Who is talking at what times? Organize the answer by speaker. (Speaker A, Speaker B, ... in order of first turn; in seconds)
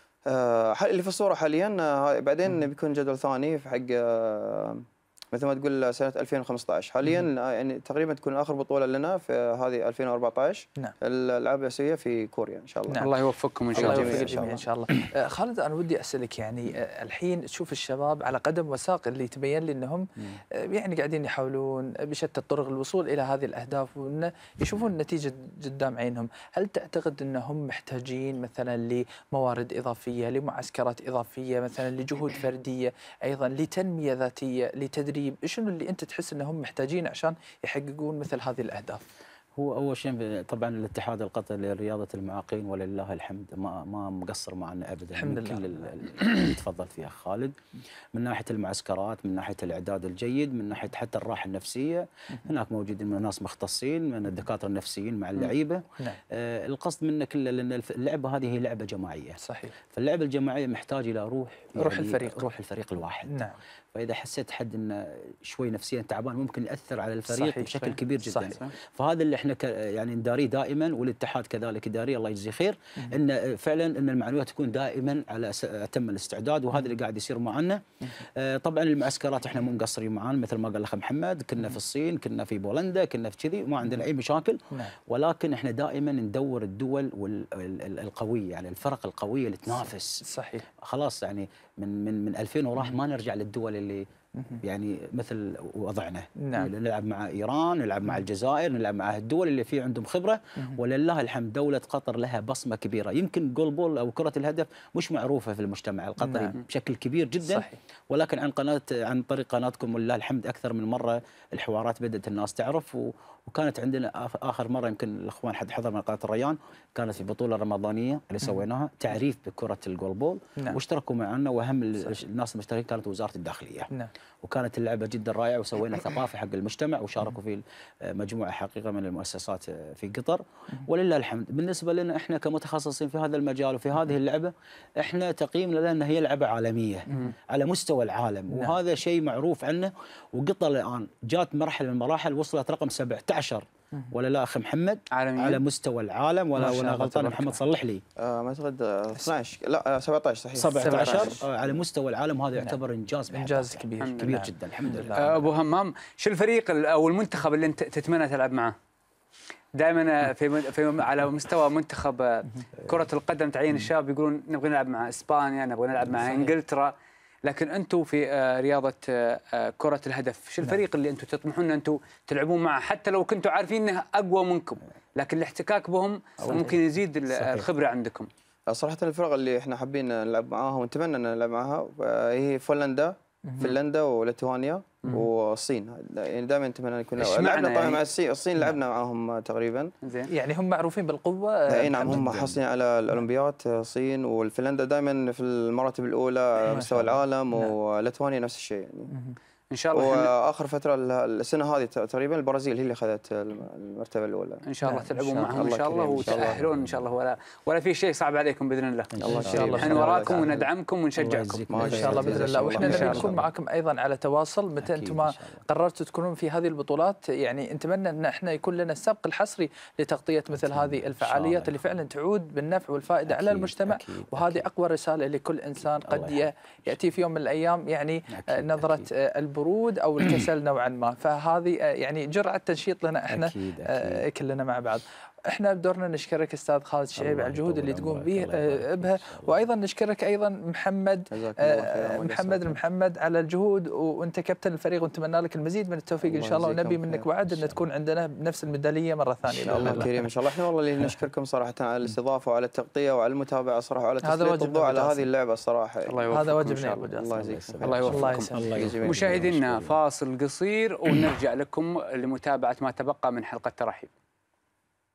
Speaker A: 0.2-13.1, 13.7-14.6, 148.2-151.4, 178.7-189.9, 191.7-199.1, 199.9-204.6, 205.5-206.6, 209.2-210.7, 211.7-213.4, 241.3-242.8, 246.2-247.3, 249.5-256.4, 257.1-258.0, 258.7-259.4
Speaker B: 13.0-14.4, 145.1-145.6, 150.9-151.2, 154.0-154.3, 155.1-158.7, 159.7-166.9, 167.4-178.3, 187.2-188.0, 190.0-190.3, 199.7-200.3, 204.6-209.1, 209.7-211.6, 256.0-257.1, 257.8-264.1
Speaker C: 13.8-39.0, 45.1-45.8, 59.4-59.7, 61.8-62.5, 63.3-63.6, 67.3-68.7, 90.2-90.7, 94.4-94.6, 96.4-96.7, 106.2-106.6, 107.4-107.8, 138.5-138.8, 146.5-147.6, 150.8-151.4, 153.3-155.4, 166.1-166.5, 190.3-192.3, 196.7-197.7, 204.8-205.6, 209.2-210.4, 211.8-250.1, 254.2-255.3, 256.3-257.3, 258.0-258.7
Speaker D: 39.5-47.5, 48.1-59.4, 59.9-63.3, 63.9-90.2, 90.9-94.0, 94.6-123.9, 124.4-148.0, 150.5-155.2, 176.4-176.7, 177.3-177.7, 192.0-192.6, 206.2-207.1, 209.1-210.1, 211.2-213.5, 214.8-215.6, 220.5-222.0, 223.2-224.7, 225.8-226.5, 228.3-229.1, 233.3-234.2, 237.2-239.6, 247.4-247.8, 249.6-250.2, 257.3-260.0